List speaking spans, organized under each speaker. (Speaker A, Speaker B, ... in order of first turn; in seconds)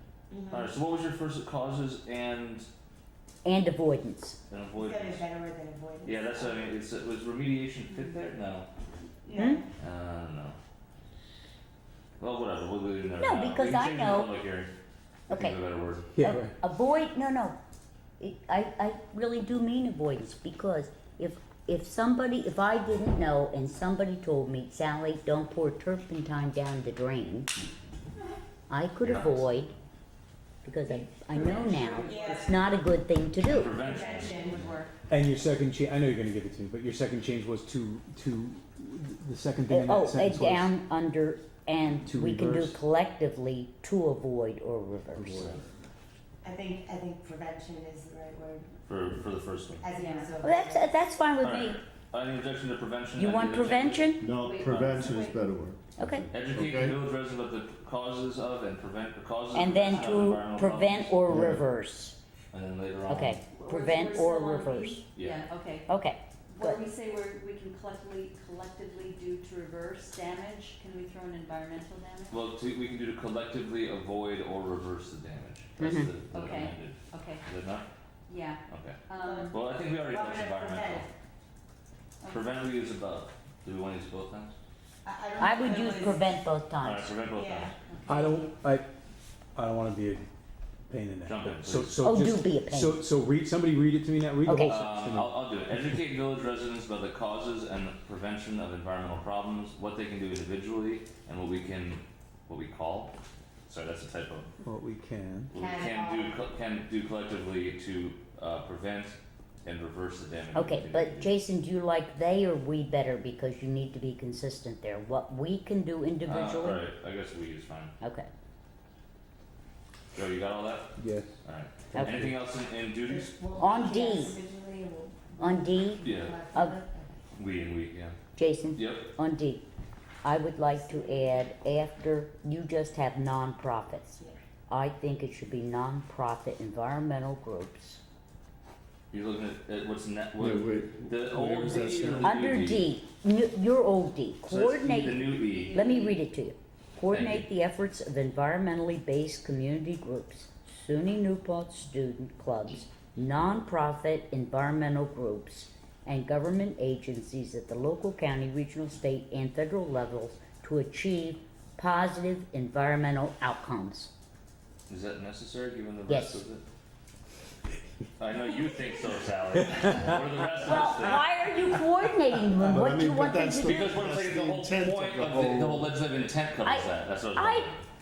Speaker A: 0.3-0.7, 4.8-6.6, 9.2-9.7, 31.5-32.5, 33.8-34.7, 46.4-48.7, 49.8-50.9, 79.2-81.1, 85.0-86.3, 87.3-87.7, 105.5-106.4, 123.0-127.2, 130.7-131.3
Speaker B: 0.5-2.7, 4.5-5.2, 6.0-8.7, 9.8-10.6, 12.2-14.7, 15.3-16.1, 29.0-29.4, 33.4-34.8, 48.9-49.8, 51.4-55.1, 56.3-61.2, 62.5-63.4, 65.1-65.4, 72.3-77.9, 78.7-81.1, 82.3-84.5, 86.8-87.7, 91.2-92.1, 94.6-103.1, 103.7-104.5, 105.5-111.3, 116.2-117.9, 120.1-120.9, 121.4-123.3, 126.0-126.4, 127.3-128.2, 128.8-129.1, 139.1-142.9, 144.4-145.8, 147.1-147.4, 164.9-166.6, 168.2-171.3, 173.6-177.8
Speaker C: 3.4-4.4, 9.3-9.6, 13.2-14.3, 15.3-15.6, 16.2-17.6, 18.2-27.5, 28.7-29.7, 30.6-33.8, 39.7-45.6, 50.4-51.8, 53.1-54.3, 56.0-56.3, 59.5-62.1, 63.1-65.0, 65.9-66.8, 75.8-76.1, 85.4-87.1, 92.0-93.0, 94.5-94.8, 110.5-116.8, 118.0-118.3, 121.9-122.2, 123.5-124.4, 125.4-126.8, 128.3-129.7, 130.2-138.0, 142.2-164.1, 166.1-166.4, 170.6-173.9, 176.6-177.7
Speaker D: 16.1-16.5, 35.1-40.7, 42.0-42.8, 45.1-45.6, 88.1-88.9, 89.5-90.2, 90.9-95.5, 104.6-105.5, 121.0-121.3
Speaker E: 32.0-32.4, 49.9-50.4, 54.4-55.4, 63.4-65.9, 66.5-72.3, 76.3-77.4, 78.3-79.5, 82.2-82.5, 87.9-88.5, 145.8-146.1
Speaker F: 54.2-55.8, 56.4-56.9, 61.3-61.6, 140.4-142.3, 172.6-175.9